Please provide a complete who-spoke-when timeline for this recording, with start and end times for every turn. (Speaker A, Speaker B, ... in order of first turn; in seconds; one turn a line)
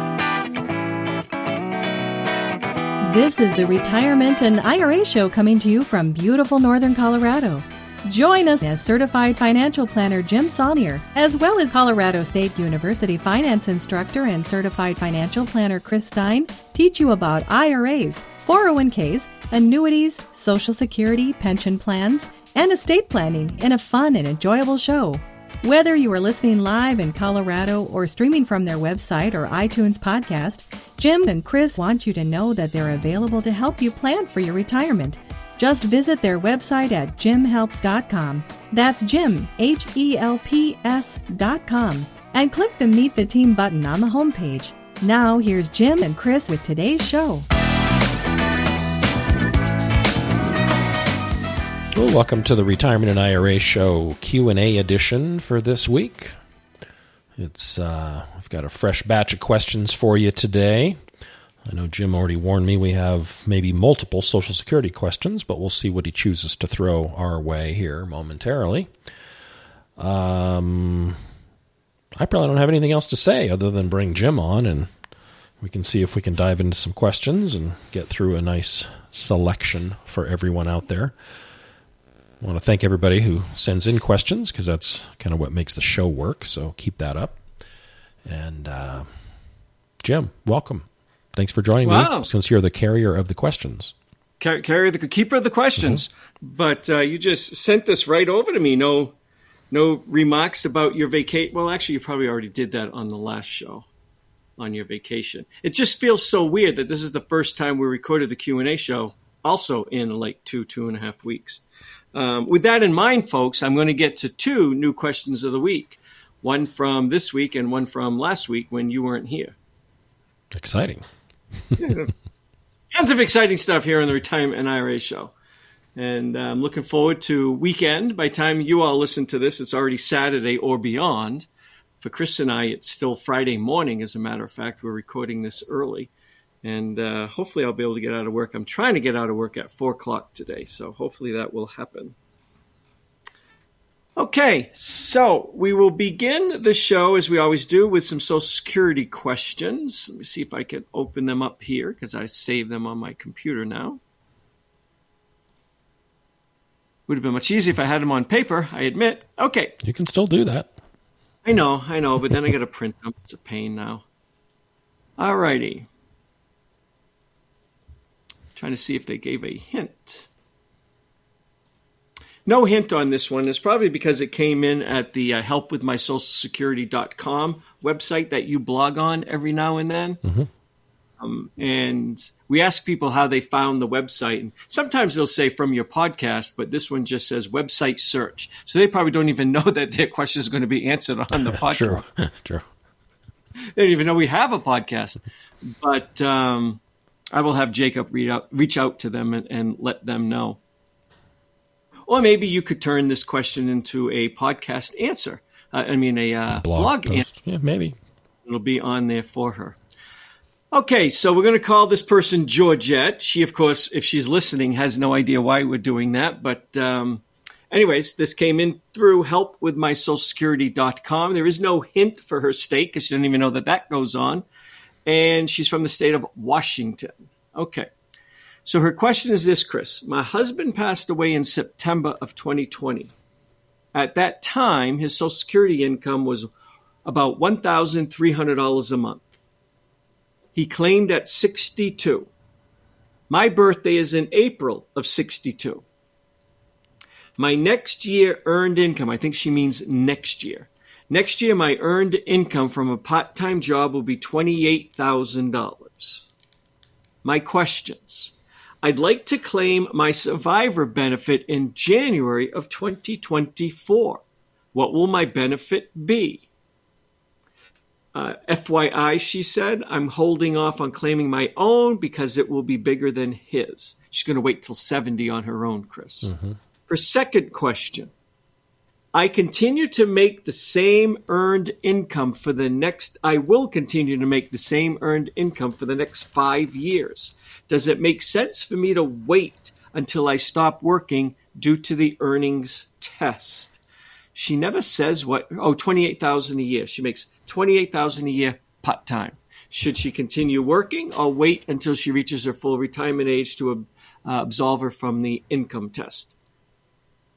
Speaker A: 3.0-47.5
Speaker B: 51.9-56.4
Speaker B: 57.4-61.0
Speaker B: 61.6-68.9
Speaker B: 70.0-71.2
Speaker B: 72.2-74.9
Speaker B: 75.6-81.1
Speaker B: 82.4-87.4
Speaker B: 88.2-89.1
Speaker B: 90.0-93.9
Speaker C: 91.8-92.3
Speaker C: 94.4-99.1
Speaker C: 99.7-103.8
Speaker C: 104.6-111.6
Speaker C: 112.1-119.5
Speaker B: 120.5-121.0
Speaker C: 121.8-122.1
Speaker C: 122.9-125.3
Speaker C: 126.0-131.5
Speaker C: 132.0-136.1
Speaker C: 136.6-142.1
Speaker C: 144.2-154.0
Speaker C: 157.1-159.8
Speaker B: 159.8-160.7
Speaker C: 161.4-164.0
Speaker C: 165.2-165.9
Speaker C: 168.6-170.3
Speaker C: 172.4-180.2
Speaker C: 181.2-192.0
Speaker B: 191.5-192.7
Speaker C: 193.8-196.8
Speaker C: 197.3-200.6
Speaker C: 202.1-207.3
Speaker B: 206.5-208.0
Speaker C: 208.4-209.8
Speaker C: 210.7-224.4
Speaker C: 225.1-227.9
Speaker C: 228.7-233.1
Speaker C: 233.9-236.5
Speaker C: 237.0-239.4
Speaker C: 240.5-242.3
Speaker C: 243.3-245.8
Speaker C: 247.4-256.3
Speaker C: 257.2-264.2
Speaker C: 264.7-266.4
Speaker C: 268.1-276.3
Speaker B: 276.2-276.5
Speaker C: 276.9-278.1
Speaker C: 279.1-293.8
Speaker C: 294.3-306.3